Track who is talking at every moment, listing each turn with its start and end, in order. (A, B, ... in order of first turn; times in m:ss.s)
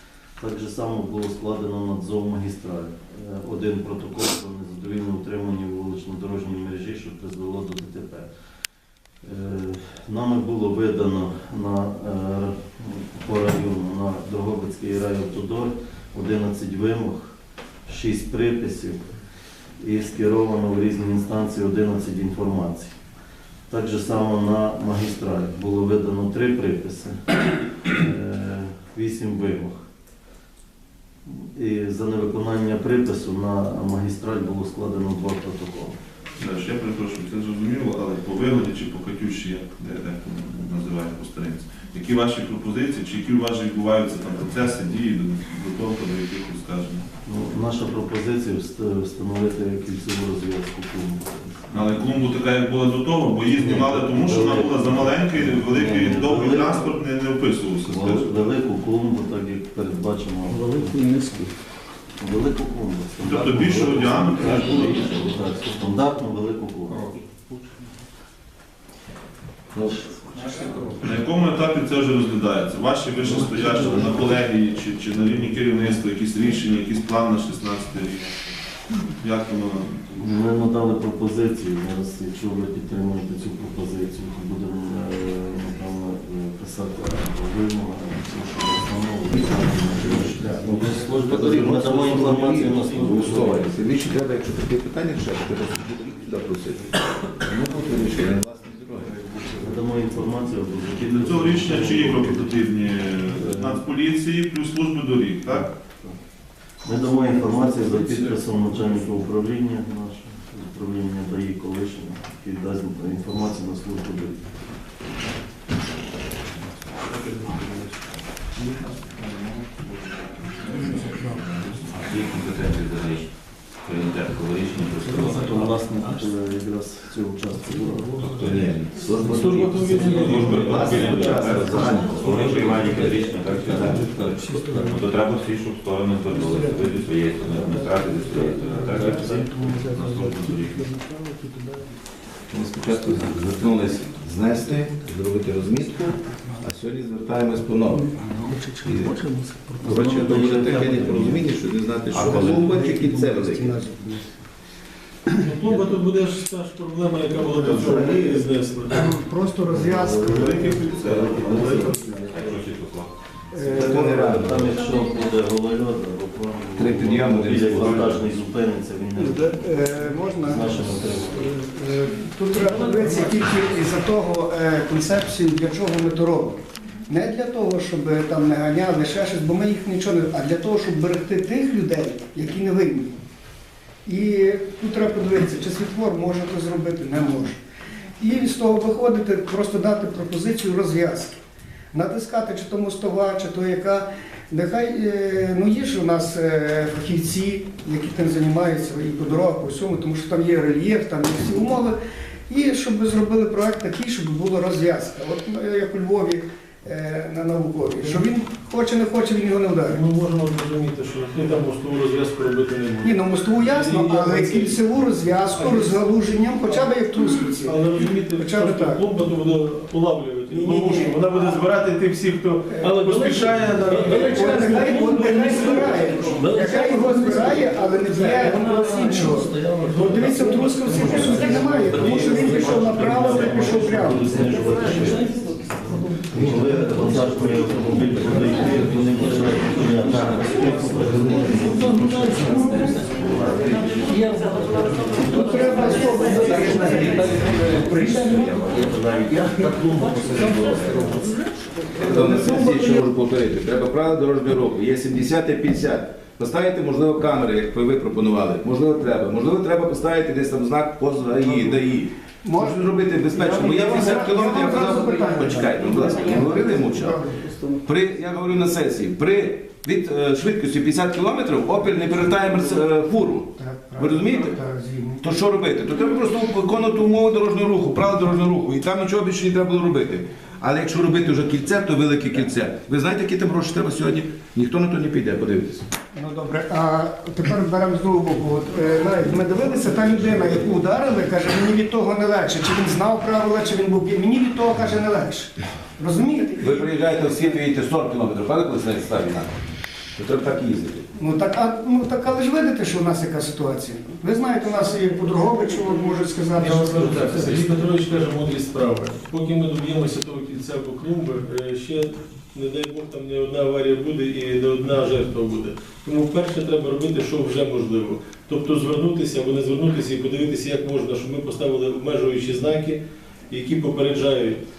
0:00.4-0:08.3 A
0:09.2-0:17.3 A
0:17.9-0:19.0 A
0:19.8-0:22.9 A
0:23.7-0:29.8 A
0:31.3-0:36.0 A
0:36.4-0:47.0 B
0:47.2-0:51.7 A
0:51.7-0:58.4 B
0:53.6-0:57.0 A
0:57.9-1:01.0 A
1:02.2-1:07.1 A
1:03.2-1:05.2 B
1:11.0-1:18.2 B
1:13.2-1:14.4 A
1:19.2-1:20.1 B
1:20.2-1:33.7 A
1:30.6-1:39.1 C
1:39.4-1:42.6 A
1:41.0-1:45.7 B
1:43.4-1:43.8 A
1:46.8-1:54.4 A
1:58.6-2:05.6 D
2:05.1-2:08.3 A
2:08.3-2:12.9 C
2:09.2-2:11.5 E
2:10.0-2:20.9 D
2:11.8-2:12.0 A
2:18.6-2:19.2 F
2:22.5-2:28.2 C
2:28.0-2:29.7 F
2:28.8-2:29.2 C
2:29.8-2:33.8 C
2:29.8-2:31.5 A
2:32.1-2:34.4 F
2:32.2-2:32.4 A
2:35.3-2:35.8 F
2:35.4-2:39.0 E
2:37.5-2:38.1 C
2:37.7-2:38.3 F
2:39.0-2:41.9 F
2:40.1-2:42.0 B
2:41.1-2:41.8 A
2:41.2-2:42.1 C
2:42.3-2:43.1 D
2:43.5-2:44.5 F
2:43.6-2:44.7 C
2:43.8-2:49.9 A
2:46.8-2:48.2 C
2:49.2-3:03.2 F
2:50.4-2:51.5 A
3:04.1-3:07.6 F
3:08.2-3:11.4 F
3:11.9-3:22.0 F
3:22.5-3:30.0 F
3:29.9-3:34.8 E
3:33.0-3:39.0 F
3:35.5-3:36.1 E
3:36.7-3:36.9 E
3:37.5-3:46.4 E
3:40.5-3:41.6 F
3:42.7-3:54.3 F
3:49.9-3:53.7 E
3:53.7-3:55.3 A
3:56.3-4:11.3 A
4:05.2-4:07.7 F
4:11.9-4:27.2 C
4:12.0-4:13.0 F
4:21.4-4:21.8 F
4:22.4-4:27.5 F
4:27.8-4:34.6 C
4:33.6-4:35.3 F
4:35.2-4:45.9 C
4:46.1-4:56.9 F
4:56.6-4:59.6 C
5:00.1-5:01.1 C
5:01.2-5:07.8 F
5:06.6-5:24.6 E